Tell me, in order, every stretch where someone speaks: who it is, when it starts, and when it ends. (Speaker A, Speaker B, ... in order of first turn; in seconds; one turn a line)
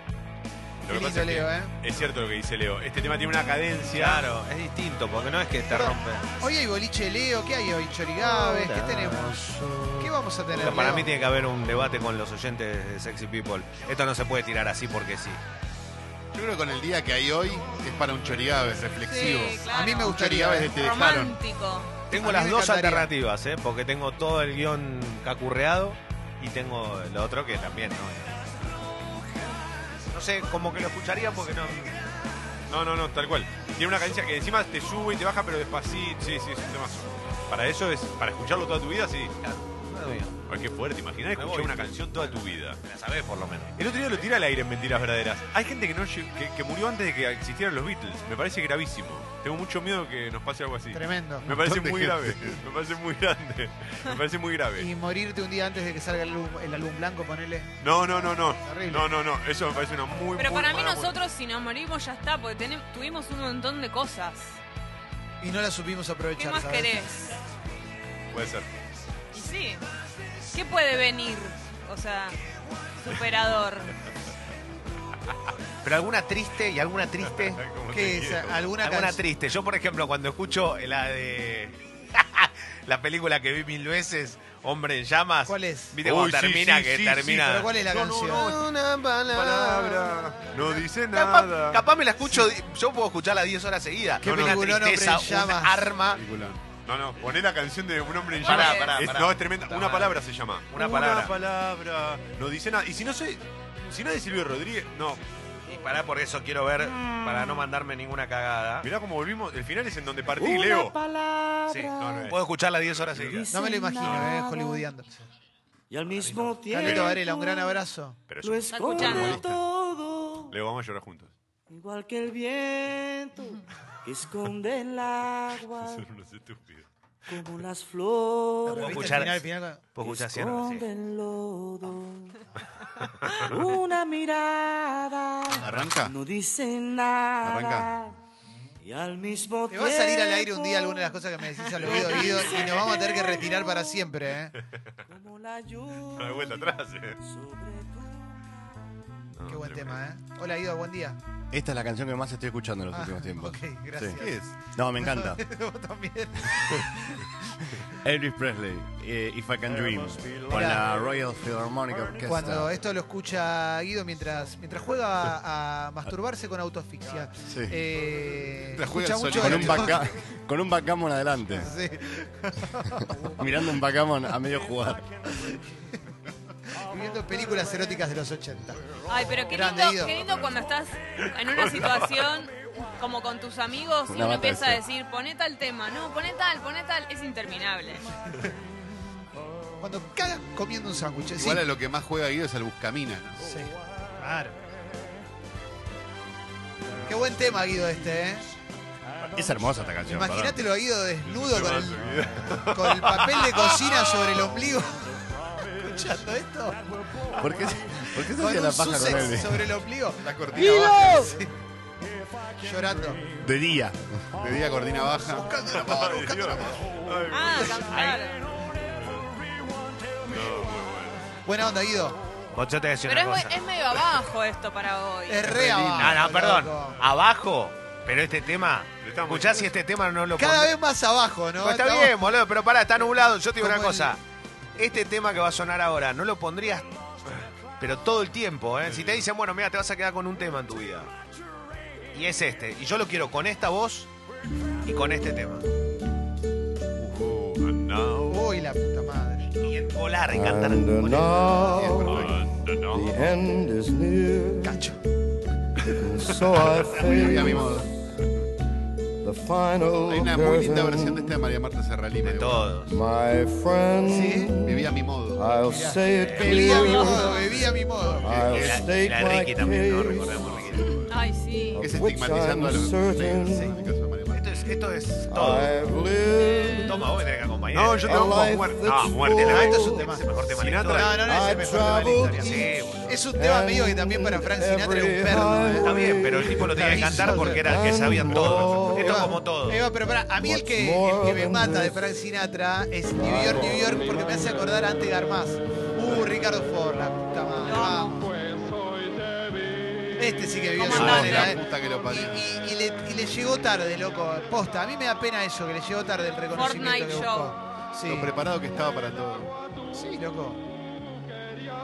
Speaker A: 0.8-4.3
Speaker B: 0.9-1.8
Speaker C: 3.9-6.3
Speaker B: 5.7-11.1
Speaker D: 8.4-10.1
Speaker C: 10.5-15.4
Speaker E: 16.3-21.4
Speaker F: 19.0-22.0
Speaker B: 19.7-20.7
Speaker C: 22.1-28.4
Speaker B: 22.1-23.1
Speaker C: 30.1-32.0
Speaker A: 32.7-39.3
Speaker C: 39.4-40.4
Speaker A: 40.5-42.8
Speaker C: 41.3-43.7
Speaker A: 43.8-54.9
Speaker B: 50.9-51.5
Speaker E: 51.5-52.6
Speaker B: 54.8-57.7
Speaker A: 57.8-61.1
Speaker B: 58.6-59.1
Speaker F: 60.4-64.6
Speaker B: 65.4-66.9
Speaker F: 66.4-67.3
Speaker A: 68.3-68.7
Speaker F: 69.3-69.8
Speaker F: 70.5-72.4
Speaker F: 73.0-74.0
Speaker C: 75.8-77.6
Speaker A: 77.2-78.7
Speaker B: 77.9-79.2
Speaker C: 78.8-87.7
Speaker B: 85.5-86.0
Speaker A: 86.0-88.6
Speaker B: 87.2-88.5
Speaker C: 88.2-96.2
Speaker A: 89.3-91.9
Speaker A: 94.2-94.7
Speaker B: 94.2-95.9
Speaker E: 96.1-96.6
Speaker A: 96.8-105.2
Speaker C: 98.4-101.3
Speaker F: 98.4-99.0
Speaker C: 105.7-108.9
Speaker A: 108.8-110.9
Speaker D: 110.3-112.3
Speaker C: 111.7-113.5
Speaker A: 112.0-113.4
Speaker D: 113.2-114.9
Speaker B: 113.5-115.2
Speaker A: 114.0-114.3
Speaker D: 115.9-117.8
Speaker C: 116.1-116.6
Speaker B: 116.7-118.2
Speaker A: 116.8-117.2
Speaker A: 118.3-119.6
Speaker D: 118.4-120.5
Speaker F: 118.7-119.4
Speaker A: 120.5-121.3
Speaker D: 121.7-126.0
Speaker A: 125.8-126.8
Speaker D: 127.2-129.1
Speaker B: 128.7-129.8
Speaker C: 128.7-130.8
Speaker D: 130.0-132.4
Speaker D: 133.4-138.1
Speaker E: 135.6-136.1
Speaker E: 137.4-137.9
Speaker D: 138.8-141.1
Speaker B: 139.7-144.5
Speaker F: 141.6-143.0
Speaker D: 142.4-142.7
Speaker D: 145.1-148.4
Speaker A: 146.1-147.2
Speaker A: 149.3-150.0
Speaker B: 149.4-151.2
Speaker G: 151.5-154.2
Speaker B: 152.9-157.3
Speaker E: 154.2-154.5
Speaker G: 154.7-155.4
Speaker G: 158.0-162.7
Speaker B: 160.5-160.8
Speaker B: 162.2-170.0
Speaker E: 168.7-170.0
Speaker G: 169.3-171.7
Speaker B: 171.6-173.1
Speaker G: 173.3-175.1
Speaker B: 175.3-175.6
Speaker B: 176.7-178.9
Speaker F: 179.1-188.1
Speaker B: 179.4-180.2
Speaker A: 181.4-182.3
Speaker G: 184.1-184.8
Speaker B: 189.8-191.6
Speaker E: 191.3-193.4
Speaker B: 193.4-194.6
Speaker B: 197.0-198.5
Speaker G: 199.3-200.6
Speaker B: 200.1-205.1
Speaker A: 201.2-204.4
Speaker B: 205.7-206.8
Speaker G: 207.4-209.7
Speaker B: 208.0-211.5
Speaker E: 210.2-211.3
Speaker G: 210.6-211.3
Speaker B: 212.6-213.2
Speaker G: 213.4-214.0
Speaker E: 214.3-216.8
Speaker B: 215.5-216.1
Speaker A: 215.7-217.9
Speaker F: 217.3-218.5
Speaker C: 217.9-218.2
Speaker A: 218.7-219.3
Speaker A: 220.2-221.3
Speaker B: 221.4-222.2
Speaker C: 222.5-223.6
Speaker F: 223.0-225.5
Speaker B: 225.3-227.0
Speaker E: 225.5-226.2
Speaker C: 226.0-230.7
Speaker A: 229.0-229.7
Speaker B: 230.3-232.2
Speaker C: 231.6-234.2
Speaker B: 233.6-234.1
Speaker C: 234.8-237.0
Speaker C: 237.8-241.1
Speaker A: 238.8-239.3
Speaker C: 242.1-244.1
Speaker C: 244.8-245.7
Speaker A: 247.0-248.5
Speaker B: 248.3-249.5
Speaker C: 249.6-251.9
Speaker H: 250.3-254.8
Speaker E: 251.6-252.4
Speaker A: 252.0-253.1
Speaker B: 254.6-255.0
Speaker H: 255.9-257.8
Speaker E: 256.8-257.9
Speaker H: 259.2-261.4
Speaker E: 260.0-262.8
Speaker C: 262.2-262.9
Speaker H: 262.9-267.4
Speaker B: 264.0-264.6
Speaker E: 264.6-265.5
Speaker B: 265.7-268.4
Speaker C: 266.2-266.7
Speaker F: 266.5-267.5
Speaker H: 268.2-270.5
Speaker E: 268.3-268.8
Speaker C: 268.4-271.0
Speaker F: 271.0-271.8
Speaker H: 271.7-273.8
Speaker E: 271.8-274.7
Speaker B: 273.5-273.8
Speaker C: 274.3-275.8
Speaker H: 275.3-277.1
Speaker C: 276.7-278.5
Speaker A: 277.7-279.7
Speaker H: 278.0-280.2
Speaker C: 279.2-281.3
Speaker B: 279.4-280.3
Speaker A: 280.5-281.2
Speaker B: 280.9-285.9
Speaker H: 281.2-289.3
Speaker C: 282.3-283.2
Speaker C: 285.8-289.8
Speaker B: 286.4-298.3
Speaker H: 290.4-292.0
Speaker H: 293.2-294.5
Speaker F: 297.6-298.2
Speaker B: 300.1-308.3
Speaker F: 300.8-301.5
Speaker E: 300.9-302.4
Speaker F: 306.5-307.6
Speaker E: 308.0-309.5
Speaker B: 309.9-310.6